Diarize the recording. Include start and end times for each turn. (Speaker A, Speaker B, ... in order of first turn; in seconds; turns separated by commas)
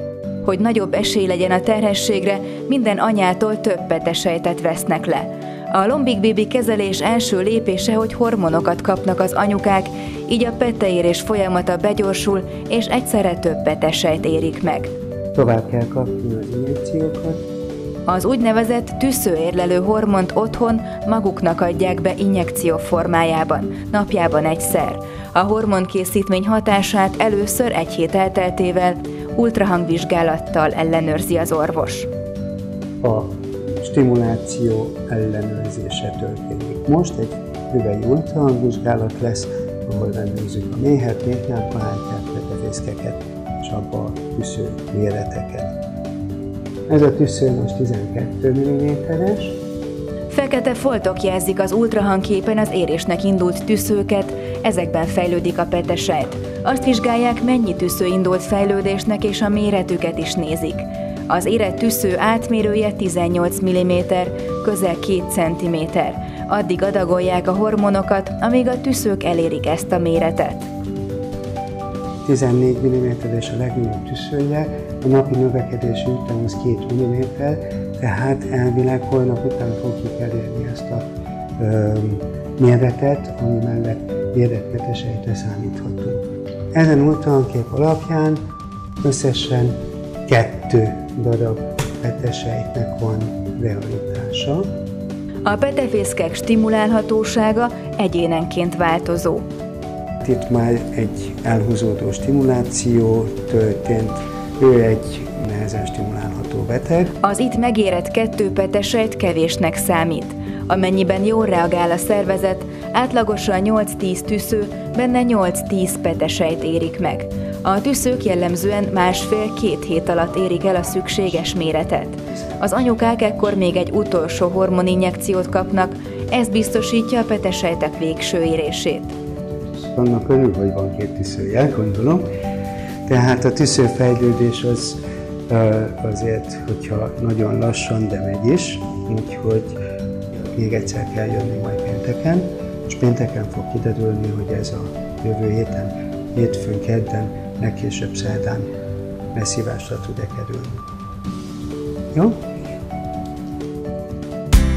Speaker A: 0.4-14.9, Speaker B: 15.3-17.4, Speaker A: 18.1-32.1, Speaker B: 33.0-45.8, Speaker B: 46.9-49.6, Speaker A: 50.3-70.7, Speaker B: 72.2-81.1, Speaker B: 81.6-86.2, Speaker B: 86.7-88.4, Speaker B: 89.0-89.8, Speaker B: 90.3-94.7, Speaker A: 95.5-99.5, Speaker B: 100.2-107.2, Speaker A: 107.2-129.2, Speaker B: 129.9-132.3, Speaker B: 133.1-139.8, Speaker B: 140.5-148.7, Speaker B: 149.3-150.8, Speaker B: 152.1-152.5